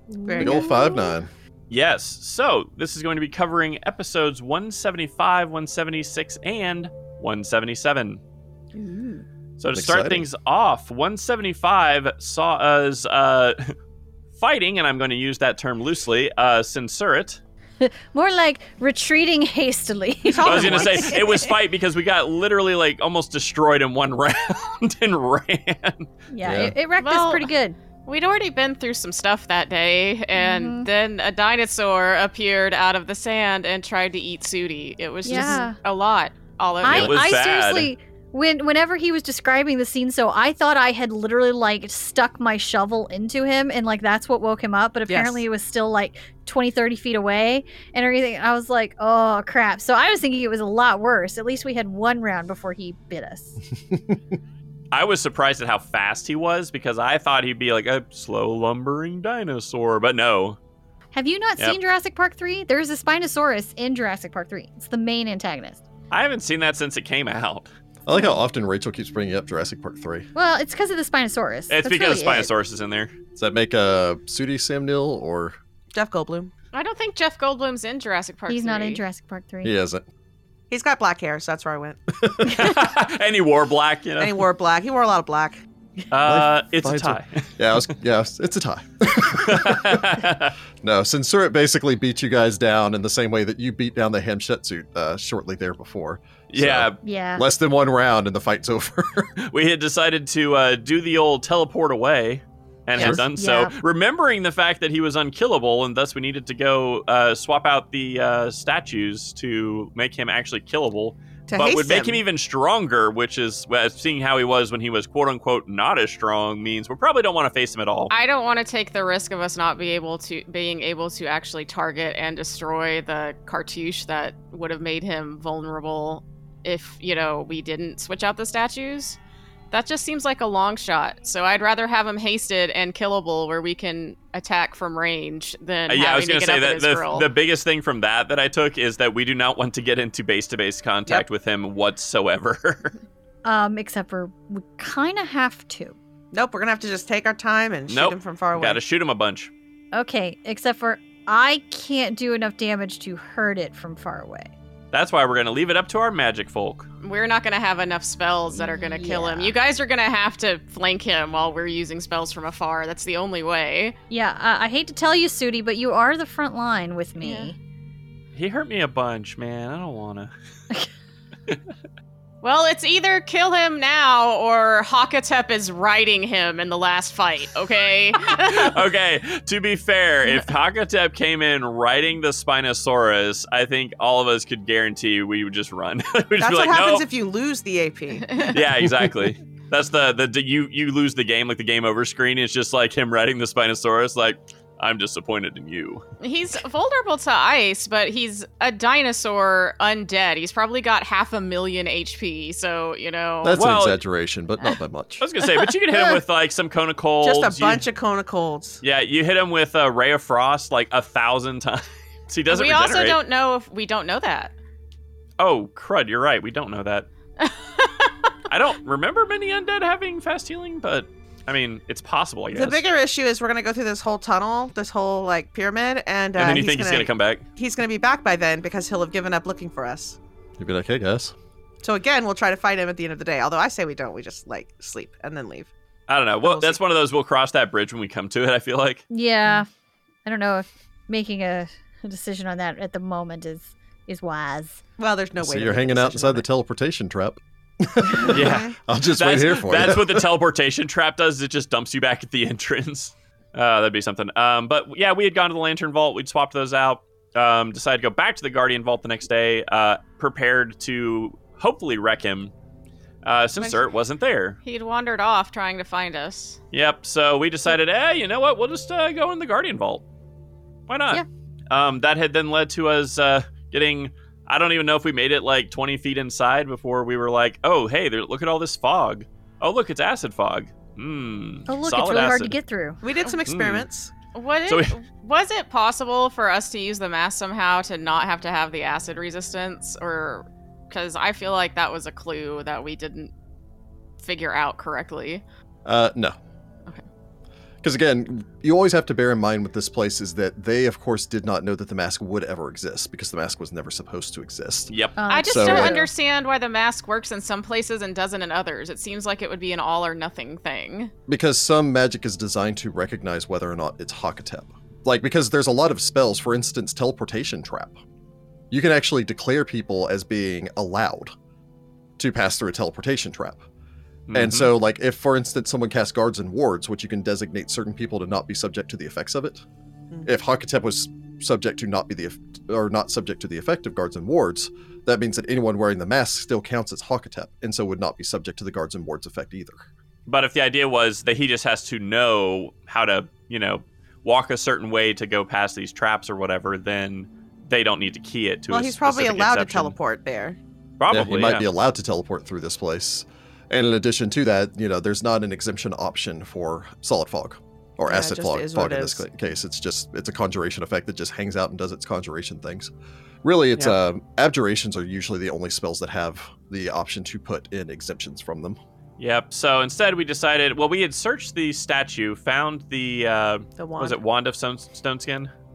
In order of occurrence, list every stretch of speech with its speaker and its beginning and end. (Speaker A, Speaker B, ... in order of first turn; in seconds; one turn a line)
Speaker A: 0.1-1.1
Speaker B: 0.2-0.9
Speaker C: 0.4-1.3
Speaker D: 1.7-8.2
Speaker A: 8.8-9.2
Speaker D: 9.6-13.8
Speaker C: 9.7-10.3
Speaker D: 14.4-17.4
Speaker A: 17.8-21.5
Speaker B: 20.2-21.2
Speaker D: 20.4-26.1
Speaker A: 26.3-27.8
Speaker C: 26.4-26.7
Speaker E: 27.0-27.5
Speaker E: 28.1-37.2
Speaker A: 30.4-30.9
Speaker A: 35.2-35.8
Speaker A: 36.8-53.6
Speaker D: 36.8-37.9
Speaker B: 45.1-45.4
Speaker D: 54.9-60.6
Speaker A: 61.1-65.8
Speaker D: 66.1-67.7
Speaker C: 68.1-70.3
Speaker A: 70.3-72.5
Speaker D: 71.7-73.1
Speaker C: 73.4-75.6
Speaker B: 75.9-76.5
Speaker E: 76.7-79.0
Speaker A: 78.5-79.8
Speaker C: 79.6-80.1
Speaker B: 80.7-82.0
Speaker C: 82.2-82.5
Speaker D: 82.4-84.5
Speaker B: 84.2-85.6
Speaker D: 86.1-87.4
Speaker C: 86.2-90.2
Speaker D: 89.2-90.5
Speaker C: 90.8-99.3
Speaker D: 96.5-97.0
Speaker A: 97.0-97.5
Speaker D: 99.4-118.1
Speaker A: 103.0-103.7
Speaker B: 111.5-112.2
Speaker E: 118.1-129.2
Speaker E: 129.7-137.3
Speaker D: 135.9-142.9
Speaker A: 143.4-146.0
Speaker B: 146.3-148.8
Speaker D: 147.9-149.5
Speaker A: 149.9-154.5
Speaker D: 154.9-156.9
Speaker E: 157.0-163.9
Speaker A: 158.5-159.6
Speaker A: 164.1-167.6
Speaker E: 167.2-167.5
Speaker D: 168.3-170.3
Speaker E: 172.4-178.8
Speaker D: 178.3-187.1
Speaker B: 186.4-188.4
Speaker E: 188.3-188.6
Speaker D: 188.5-196.0
Speaker E: 196.2-203.7
Speaker C: 203.4-205.2
Speaker D: 203.5-204.0
Speaker D: 205.2-207.8
Speaker B: 207.2-208.8
Speaker D: 208.8-213.2
Speaker E: 212.5-214.5
Speaker D: 215.4-217.1
Speaker E: 217.4-218.1
Speaker D: 218.5-222.8
Speaker B: 222.5-230.2
Speaker D: 226.3-227.4
Speaker C: 230.6-231.3
Speaker B: 231.8-235.7
Speaker D: 236.1-239.1
Speaker B: 236.4-236.8
Speaker A: 239.1-239.7
Speaker A: 240.2-244.8
Speaker B: 245.0-246.4
Speaker C: 245.4-250.3
Speaker B: 248.3-248.7
Speaker D: 248.3-262.5
Speaker D: 263.2-264.6
Speaker E: 264.6-266.6
Speaker D: 266.7-270.1
Speaker D: 270.9-282.5
Speaker A: 281.7-283.0
Speaker B: 283.0-284.1
Speaker D: 283.4-283.9
Speaker E: 284.3-293.3
Speaker D: 284.7-285.0
Speaker E: 294.2-295.4
Speaker C: 295.9-296.4
Speaker C: 297.8-304.9
Speaker D: 304.9-305.2
Speaker A: 305.2-306.0
Speaker E: 305.3-311.1
Speaker C: 305.5-306.1
Speaker C: 311.3-318.0
Speaker C: 318.7-321.3
Speaker C: 322.2-323.6
Speaker D: 324.3-324.7
Speaker C: 324.3-329.6
Speaker C: 330.2-339.9
Speaker D: 340.3-349.9
Speaker B: 348.7-350.6
Speaker D: 351.0-351.6
Speaker C: 351.1-362.9
Speaker B: 358.1-359.3
Speaker C: 363.4-368.8
Speaker D: 369.2-375.5
Speaker B: 373.8-374.2